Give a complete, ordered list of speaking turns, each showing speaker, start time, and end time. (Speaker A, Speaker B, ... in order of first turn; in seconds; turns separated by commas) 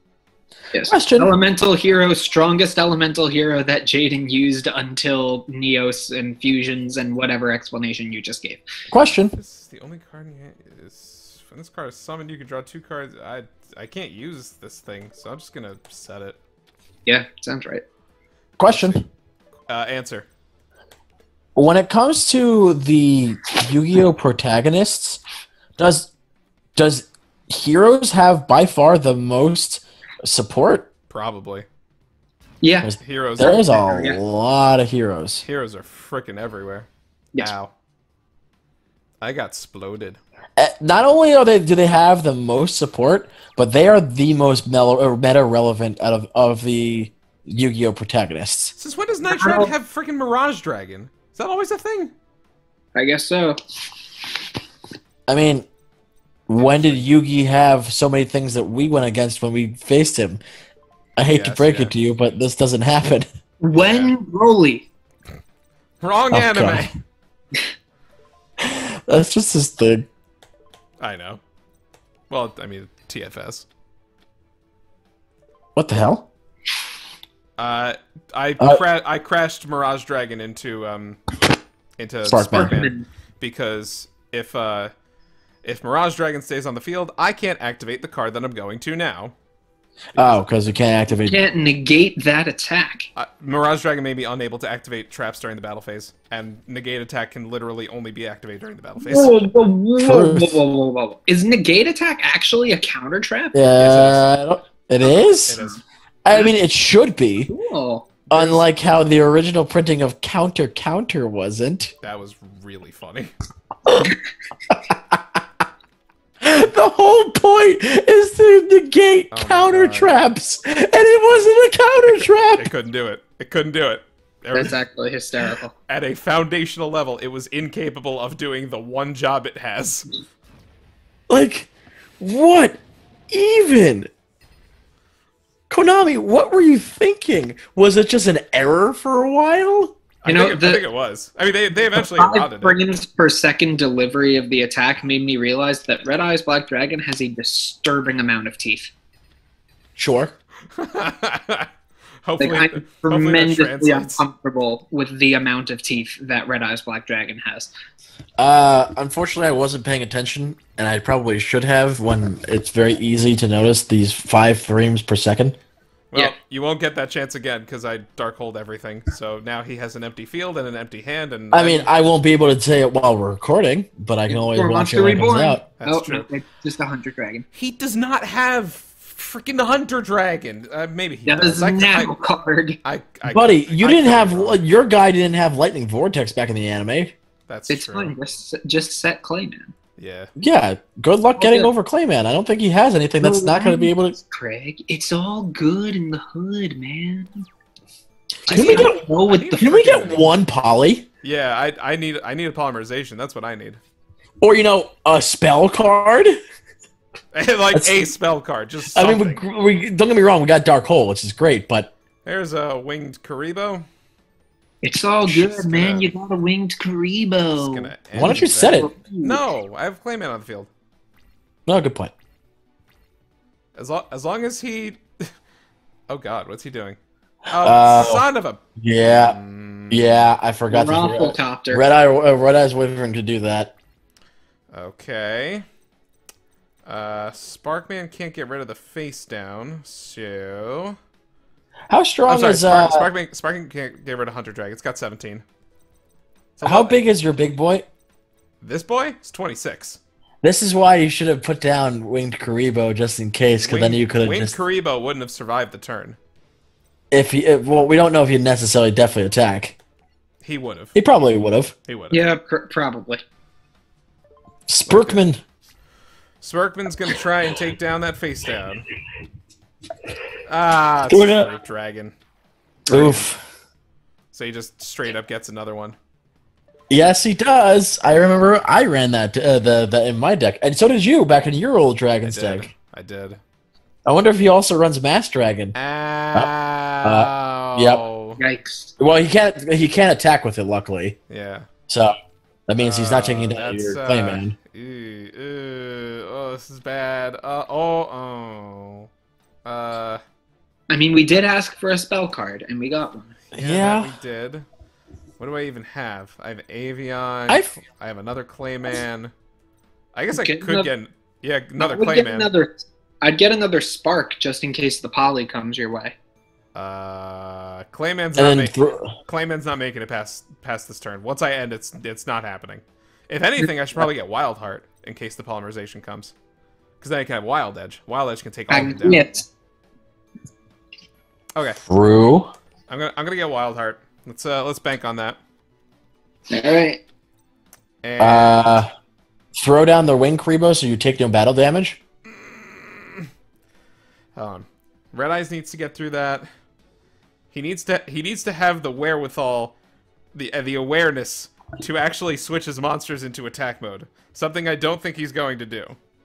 Speaker A: 0.7-8.6, Speaker B: 0.9-1.3, Speaker B: 8.9-9.3, Speaker C: 9.1-16.4, Speaker A: 17.1-17.8, Speaker B: 18.6-19.0, Speaker C: 18.7-19.0, Speaker C: 19.7-20.3, Speaker B: 21.5-25.2, Speaker B: 25.8-26.1, Speaker B: 26.8-30.9, Speaker C: 31.1-31.6, Speaker A: 32.6-34.2, Speaker B: 32.8-35.4, Speaker C: 33.0-33.7, Speaker C: 35.4-37.7, Speaker C: 39.2-40.2, Speaker B: 40.6-48.7, Speaker C: 48.8-52.1, Speaker A: 49.2-49.7, Speaker A: 52.9-53.6, Speaker B: 55.3-55.6, Speaker B: 56.5-60.4, Speaker C: 56.5-57.0, Speaker B: 61.2-63.3, Speaker C: 61.3-61.9, Speaker A: 63.6-64.8, Speaker C: 63.8-64.1, Speaker C: 66.0-66.9, Speaker B: 66.3-66.9, Speaker B: 68.6-70.1, Speaker C: 71.0-71.4, Speaker C: 72.3-73.7, Speaker B: 75.8-76.3, Speaker C: 77.6-81.2, Speaker C: 82.0-84.9, Speaker B: 82.2-82.8, Speaker A: 82.5-83.0, Speaker C: 85.6-89.3, Speaker C: 90.2-90.5, Speaker B: 90.2-91.4, Speaker A: 91.1-93.1, Speaker C: 93.1-99.5, Speaker A: 99.0-103.6, Speaker B: 100.0-100.6, Speaker B: 103.5-105.6, Speaker C: 103.8-104.3, Speaker A: 105.0-106.5, Speaker C: 105.5-105.8, Speaker B: 106.2-107.5, Speaker A: 107.5-108.1, Speaker C: 108.3-108.7, Speaker B: 108.3-111.9, Speaker C: 112.0-113.3, Speaker B: 113.9-114.1, Speaker B: 114.7-115.2, Speaker B: 116.4-122.7, Speaker C: 119.3-120.2, Speaker C: 122.5-124.7, Speaker A: 124.5-125.7, Speaker C: 125.9-130.1, Speaker B: 131.3-131.7, Speaker B: 132.2-132.8, Speaker B: 133.3-134.1, Speaker B: 135.7-139.9, Speaker C: 140.2-142.8, Speaker A: 140.2-140.8, Speaker A: 141.9-148.9, Speaker B: 149.9-150.3, Speaker C: 150.8-151.7, Speaker C: 152.2-154.2, Speaker A: 152.4-157.7, Speaker B: 158.4-165.6, Speaker C: 166.1-171.9, Speaker B: 171.5-175.7, Speaker A: 174.3-177.4, Speaker C: 175.8-176.3, Speaker C: 177.5-182.1, Speaker A: 181.3-182.8, Speaker C: 182.8-184.6, Speaker B: 183.3-187.1, Speaker C: 187.5-188.2, Speaker A: 187.7-189.7, Speaker C: 190.0-190.3, Speaker B: 190.4-194.2, Speaker A: 191.4-191.7, Speaker A: 193.2-197.4, Speaker A: 198.4-200.2, Speaker B: 198.5-199.0, Speaker C: 198.5-200.4, Speaker B: 199.6-201.0, Speaker C: 201.2-203.8, Speaker B: 204.4-206.3, Speaker C: 207.3-209.4, Speaker B: 207.7-208.0, Speaker B: 208.9-211.9, Speaker C: 212.2-213.8, Speaker A: 214.8-219.4, Speaker C: 215.2-216.1, Speaker C: 217.5-220.7, Speaker B: 218.1-218.9, Speaker B: 221.7-222.1, Speaker C: 223.7-225.0, Speaker C: 226.1-227.0, Speaker C: 227.5-230.3, Speaker B: 227.6-228.2, Speaker B: 228.8-229.4, Speaker B: 229.9-233.7, Speaker A: 230.7-231.8, Speaker C: 234.7-235.6, Speaker C: 236.8-240.9, Speaker B: 241.9-243.1, Speaker C: 242.2-245.4, Speaker C: 246.6-247.1, Speaker B: 246.6-247.8, Speaker C: 248.6-250.0, Speaker B: 250.4-254.5, Speaker C: 253.6-256.2, Speaker B: 257.1-259.7, Speaker C: 260.4-260.9, Speaker B: 260.9-261.7, Speaker C: 261.9-262.2, Speaker A: 262.1-263.2, Speaker B: 264.7-265.4, Speaker C: 264.9-265.3, Speaker C: 266.4-268.9, Speaker C: 270.4-272.1, Speaker B: 271.1-271.5, Speaker C: 272.9-273.3, Speaker B: 272.9-273.4, Speaker C: 274.3-275.9, Speaker B: 276.9-282.7, Speaker C: 282.2-283.4, Speaker B: 284.1-285.7, Speaker C: 285.7-288.4, Speaker B: 287.0-288.0, Speaker A: 288.4-288.9, Speaker B: 289.0-291.1, Speaker C: 291.3-291.7, Speaker B: 291.9-292.1, Speaker B: 292.7-294.5, Speaker C: 292.8-299.1, Speaker C: 299.6-300.2, Speaker A: 300.9-303.3, Speaker C: 303.5-304.7, Speaker B: 303.5-304.1, Speaker C: 305.4-309.3, Speaker B: 307.5-307.7, Speaker C: 310.1-312.5, Speaker A: 310.3-310.9, Speaker A: 311.8-316.1, Speaker C: 316.7-326.3, Speaker B: 318.3-319.1, Speaker C: 327.0-329.3, Speaker A: 328.7-329.4, Speaker B: 331.9-332.5, Speaker C: 332.9-335.4, Speaker A: 336.5-337.0, Speaker C: 338.0-338.8, Speaker B: 338.2-338.9, Speaker B: 339.5-342.0, Speaker C: 342.3-343.3, Speaker C: 344.3-346.5, Speaker C: 347.5-349.8, Speaker C: 350.3-356.0